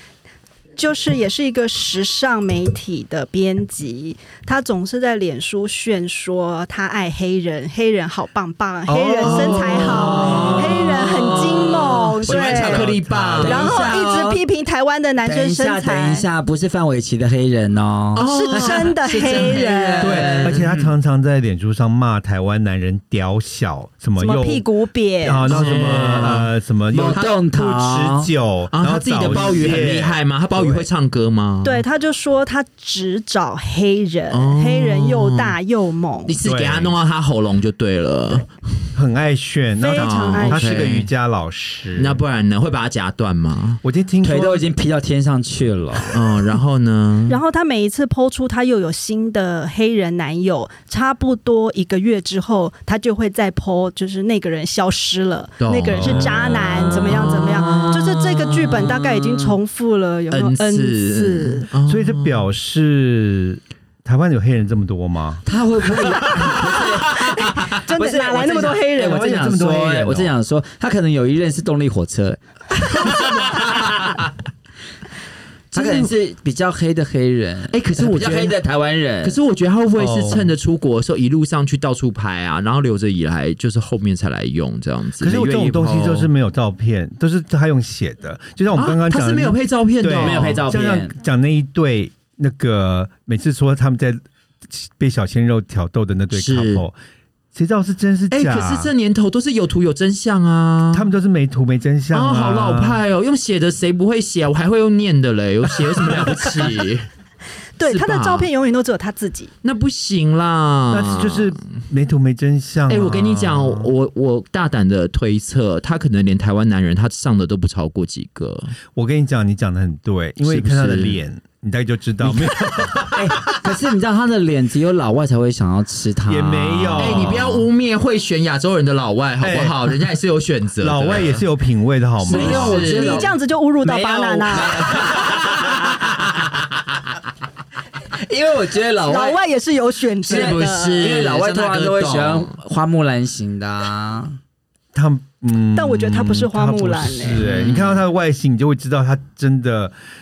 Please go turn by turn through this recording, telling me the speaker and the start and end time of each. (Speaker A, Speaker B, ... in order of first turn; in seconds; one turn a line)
Speaker A: 0.8-16.3
Speaker B: 8.9-10.8
Speaker C: 9.2-14.1
Speaker D: 9.9-10.9
Speaker B: 12.2-13.8
Speaker D: 13.4-14.4
Speaker D: 15.2-20.9
Speaker C: 18.1-20.6
Speaker A: 18.2-20.2
Speaker B: 20.0-24.6
Speaker A: 24.2-25.5
Speaker B: 25.2-30.9
Speaker C: 25.4-26.5
Speaker D: 25.5-28.3
Speaker C: 28.7-31.8
Speaker A: 31.6-36.4
Speaker C: 34.3-35.6
Speaker C: 36.2-38.9
Speaker B: 36.4-37.0
Speaker B: 38.9-42.2
Speaker A: 39.8-40.9
Speaker C: 39.9-41.1
Speaker C: 42.0-43.8
Speaker B: 43.8-44.6
Speaker D: 44.2-46.2
Speaker C: 46.1-47.4
Speaker A: 47.3-61.7
Speaker C: 55.6-59.1
Speaker B: 55.9-56.7
Speaker C: 60.3-62.5
Speaker B: 61.9-65.4
Speaker D: 65.4-67.3
Speaker A: 67.1-69.3
Speaker D: 67.9-72.4
Speaker B: 69.0-70.3
Speaker D: 72.9-73.8
Speaker C: 73.0-74.2
Speaker C: 75.7-76.1
Speaker D: 75.7-79.3
Speaker C: 77.7-78.6
Speaker C: 79.2-86.3
Speaker B: 80.0-80.5
Speaker B: 85.2-96.9
Speaker C: 88.7-90.6
Speaker D: 90.1-91.2
Speaker C: 96.3-96.8
Speaker B: 97.5-98.9
Speaker C: 98.3-101.1
Speaker B: 100.9-103.0
Speaker C: 102.1-107.1
Speaker A: 107.8-109.5
Speaker C: 107.8-108.5
Speaker C: 109.6-111.8
Speaker B: 110.9-113.9
Speaker C: 112.9-118.8
Speaker B: 118.9-123.6
Speaker C: 120.4-121.2
Speaker D: 123.1-127.3
Speaker B: 126.3-127.7
Speaker C: 127.0-131.4
Speaker B: 129.4-130.0
Speaker B: 130.8-132.8
Speaker D: 132.2-136.1
Speaker C: 132.3-133.3
Speaker A: 132.4-134.8
Speaker C: 134.8-135.5
Speaker D: 138.2-139.4
Speaker A: 139.0-141.2
Speaker C: 140.2-142.6
Speaker D: 140.2-144.4
Speaker B: 144.9-149.9
Speaker A: 145.7-147.4
Speaker C: 147.4-147.9
Speaker D: 147.5-147.8